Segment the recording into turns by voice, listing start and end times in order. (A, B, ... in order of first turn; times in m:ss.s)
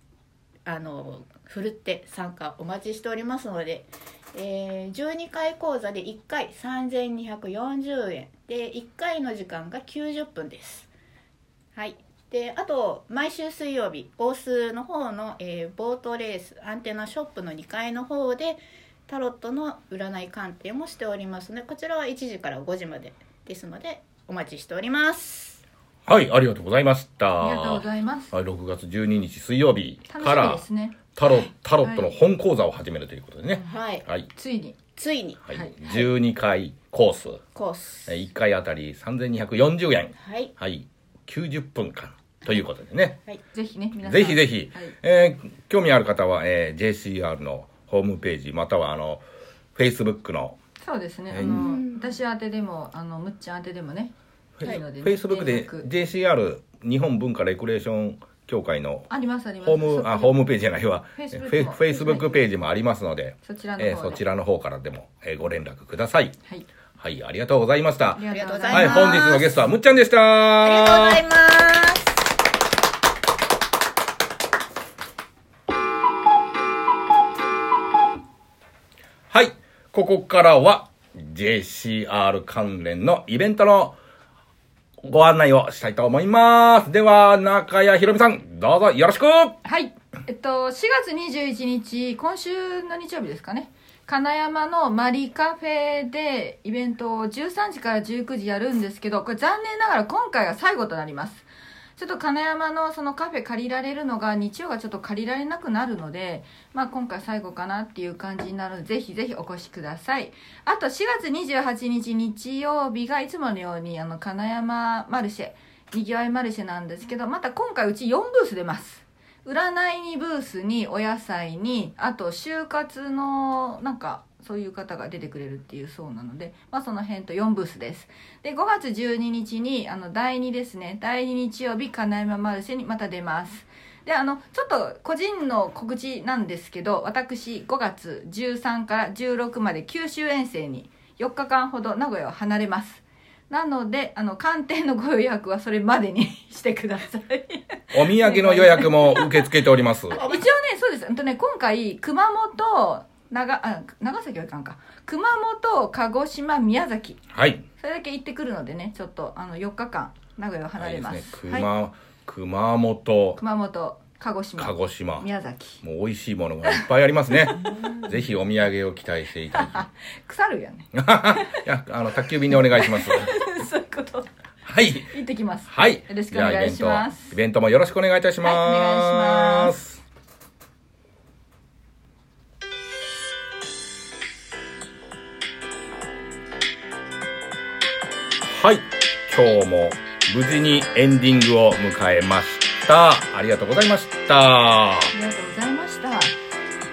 0:00.7-0:10.9 A
0:11.8-0:25.6 A
0:26.1-0:30.6 B
0:27.4-0:28.3 C
0:30.1-0:31.0 C
0:31.2-0:34.3 B
0:31.8-0:32.1 C
0:33.6-0:34.1 A
0:34.3-0:34.8 C
0:35.0-0:35.4 A
0:35.5-0:37.4 B
0:35.5-0:36.0 C
0:37.6-0:38.1 A
0:38.1-0:43.2 B
0:40.2-0:40.5 A
0:43.5-0:44.9 C
0:44.0-0:49.2 B
0:49.8-0:50.6 B
0:50.8-0:55.9 C
0:51.3-0:51.7 B
0:51.4-0:52.2 A
0:54.6-1:06.4 B
0:59.1-1:00.6 C
1:01.1-1:02.4 C
1:03.4-1:04.2 C
1:07.0-1:11.2 B
1:08.1-1:09.4 C
1:08.3-1:09.5 A
1:10.6-1:12.2 A
1:19.3-1:24.0 B
1:25.0-1:29.6 B
1:29.6-2:29.4 C
2:27.9-2:30.2 B
2:30.1-2:37.2 C
2:30.2-2:30.5 A
2:37.3-2:37.6 B
2:37.8-2:41.7 C
2:40.8-2:43.4 B
2:43.4-2:45.8 C
2:44.6-2:45.3 B
2:45.8-2:49.9 B
2:47.4-2:47.8 C
2:49.5-2:51.6 C
2:50.9-2:53.3 B
2:52.5-2:54.3 C
2:54.7-2:55.1 B
2:55.0-2:57.4 C
2:55.7-3:00.0 B
2:58.4-2:59.8 C
3:08.5-3:15.1 B
3:15.1-3:16.4 C